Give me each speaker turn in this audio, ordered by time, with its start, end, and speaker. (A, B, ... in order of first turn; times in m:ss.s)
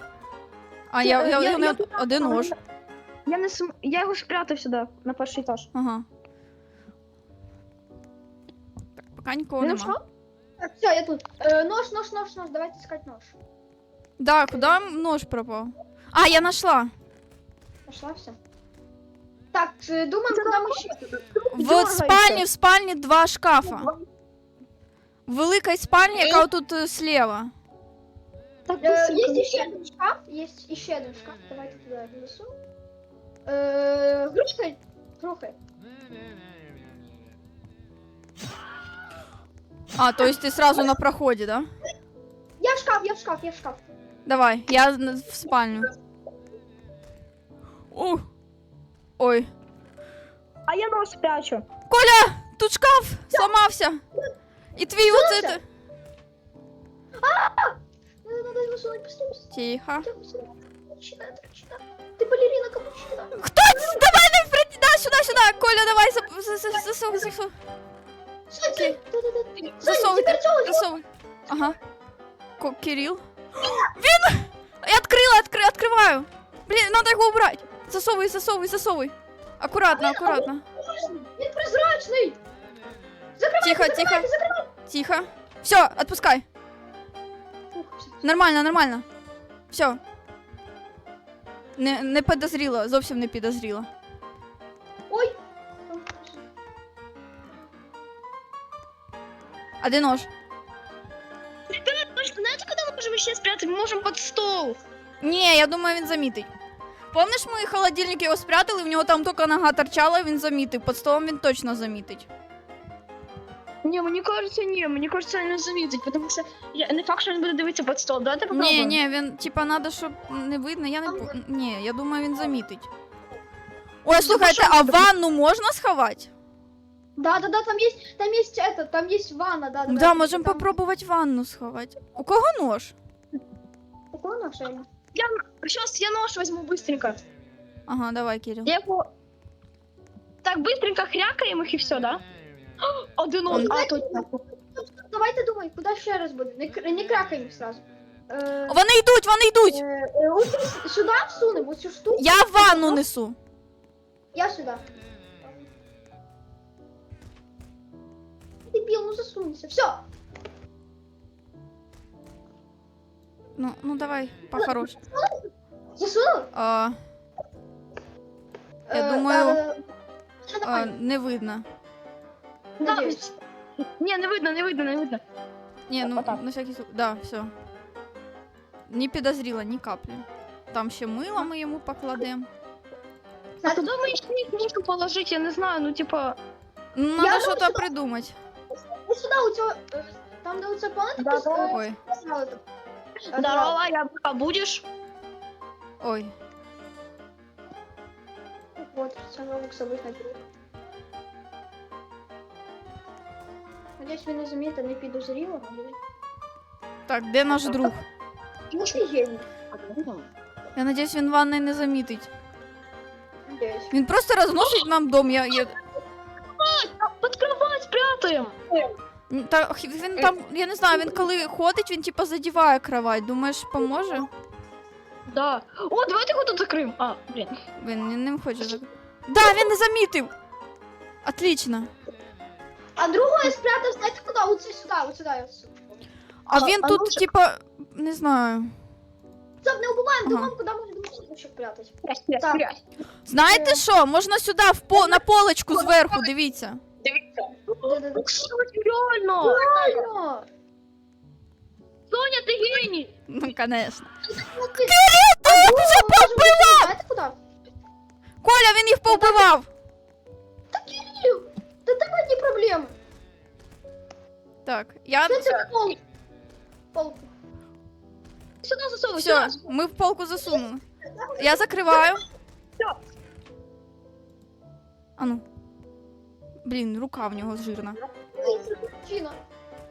0:00.9-0:02.6 A
0:01.0-0:02.6 B
0:03.3-0:05.7 B
0:05.7-0:06.0 A
0:09.1-0:10.0 A
0:09.6-0:10.0 B
0:10.6-0:13.4 C
0:14.2-0:16.9 A
0:17.9-0:18.4 C
0:19.5-0:21.0 C
0:20.3-0:22.5 B
0:21.5-0:23.9 A
0:23.6-0:24.0 B
0:25.3-0:27.5 A
0:26.2-0:26.4 B
0:28.7-0:29.8 B
0:28.8-0:32.5 C
0:33.5-0:35.6 C
0:40.0-0:41.7 A
0:42.6-0:43.8 C
0:44.3-0:45.9 A
0:47.9-0:48.2 A
0:49.2-0:49.5 A
0:50.7-0:51.6 B
0:51.9-0:54.0 A
0:54.8-0:55.6 A
0:55.0-0:55.6 C
0:57.2-0:59.5 C
0:59.5-1:00.1 A
1:00.0-1:04.1 C
1:03.4-1:07.5 A
1:08.5-1:10.9 C
1:08.7-1:09.0 A
1:09.8-1:11.8 A
1:12.6-1:20.6 A
1:19.9-1:22.4 C
1:23.4-1:24.7 C
1:23.6-1:24.3 A
1:24.9-1:26.4 A
1:27.7-1:28.2 C
1:28.2-1:29.0 A
1:29.7-1:30.0 A
1:31.8-1:33.9 A
1:35.1-1:35.4 C
1:35.9-1:36.4 C
1:39.8-1:40.3 A
1:41.7-1:44.8 B
1:45.2-1:46.5 A
1:47.1-1:52.3 A
1:53.8-1:59.0 B
1:58.5-2:02.9 A
2:01.1-2:01.3 C
2:04.0-2:06.3 A
2:04.1-2:05.1 B
2:07.2-2:10.7 C
2:09.9-2:12.9 A
2:14.1-2:14.9 C
2:15.1-2:17.2 B
2:17.9-2:18.7 A
2:18.6-2:19.1 B
2:20.4-2:22.2 B
2:22.8-2:24.4 B
2:23.5-2:28.8 C
2:28.7-2:29.8 A
2:29.7-2:33.0 C
2:32.2-2:33.4 A
2:34.3-2:34.8 C
2:38.7-2:40.0 C
2:43.6-2:45.0 A
2:44.6-2:45.5 C
2:46.0-2:46.5 C
2:46.5-2:47.0 A
2:48.9-2:49.8 C
2:48.9-2:49.6 A
2:50.6-2:51.7 A
2:52.8-2:55.2 B
2:52.8-2:53.2 C
2:55.9-2:57.5 A
2:56.0-2:56.4 B
2:58.9-3:02.5 A
3:03.6-3:04.1 C
3:03.6-3:06.4 B
3:07.0-3:08.4 A
3:07.2-3:07.9 C
3:09.1-3:12.6 C
3:11.2-3:11.7 B
3:11.7-3:12.0 A
3:13.3-3:14.9 B
3:13.3-3:13.8 C
3:16.0-3:16.3 A
3:18.8-3:20.4 C
3:24.0-3:26.0 C
3:27.1-3:28.0 A
3:28.7-3:29.0 B
3:28.9-3:29.4 C
3:29.7-3:30.3 B
3:30.8-3:32.3 A
3:33.5-3:33.9 C
3:33.9-3:35.8 A
3:36.4-3:38.9 B
3:39.3-3:44.3 A
3:45.3-3:47.6 B
3:47.8-3:50.3 A
3:51.2-3:51.9 A
3:53.0-3:56.0 C
3:56.5-3:58.7 A
3:56.6-3:57.3 B
3:59.6-4:02.7 C
4:00.2-4:00.5 A
4:02.0-4:02.8 B
4:03.3-4:06.8 A
4:03.5-4:03.8 C
4:04.9-4:05.2 C
4:07.0-4:10.1 B
4:07.8-4:08.3 C
4:09.4-4:10.5 C
4:12.1-4:13.1 B
4:13.3-4:14.1 A
4:14.3-4:17.4 C
4:14.8-4:16.9 A
4:18.4-4:19.7 A
4:19.1-4:19.5 C
4:20.7-4:22.9 C
4:24.7-4:25.6 A
4:25.3-4:26.0 C
4:26.9-4:27.3 C
4:28.6-4:29.7 B
4:29.2-4:30.8 A
4:31.1-4:32.2 C
4:31.4-4:32.2 A
4:35.2-4:35.4 A
4:36.6-4:38.0 A
4:38.4-4:39.4 C